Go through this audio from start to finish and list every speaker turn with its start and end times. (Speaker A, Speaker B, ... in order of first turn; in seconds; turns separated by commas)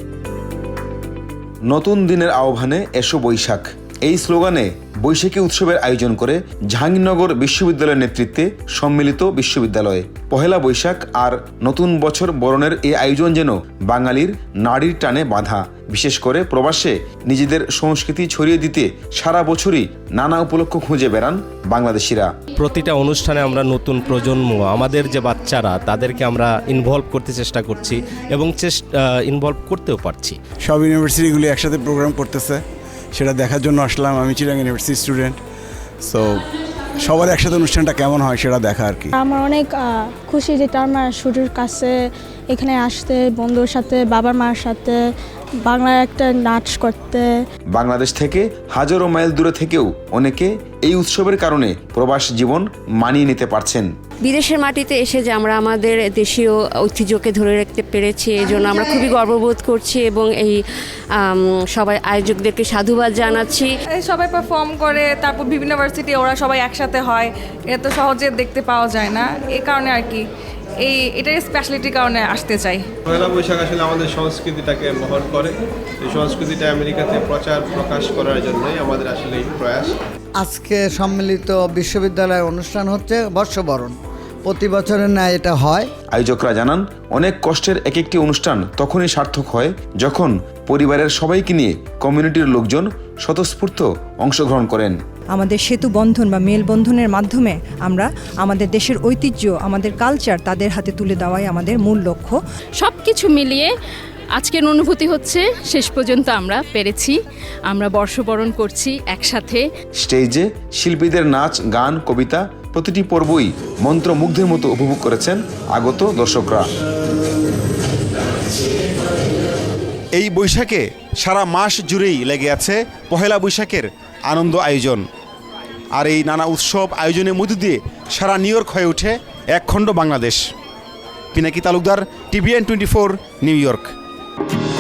Speaker A: 1.7-22.3, Speaker B: 22.6-30.4, Speaker C: 30.6-32.6, Speaker C: 33.1-35.4, Speaker C: 36.0-36.4, Speaker C: 37.0-39.1, Speaker D: 39.1-41.9, Speaker D: 42.5-45.0, Speaker D: 45.6-47.3, Speaker A: 47.7-53.9, Speaker E: 54.2-60.6, Speaker E: 61.2-63.8, Speaker F: 63.9-70.2, Speaker F: 70.8-72.9, Speaker G: 73.0-79.9, Speaker H: 80.4-83.9, Speaker H: 84.5-85.8, Speaker A: 86.1-95.0, Speaker I: 95.3-102.4, Speaker J: 102.8-103.7, Speaker J: 104.4-109.6, Speaker A: 110.0-116.7, Speaker K: 120.2-125.0, Speaker K: 126.0-130.4, Speaker K: 131.3-133.9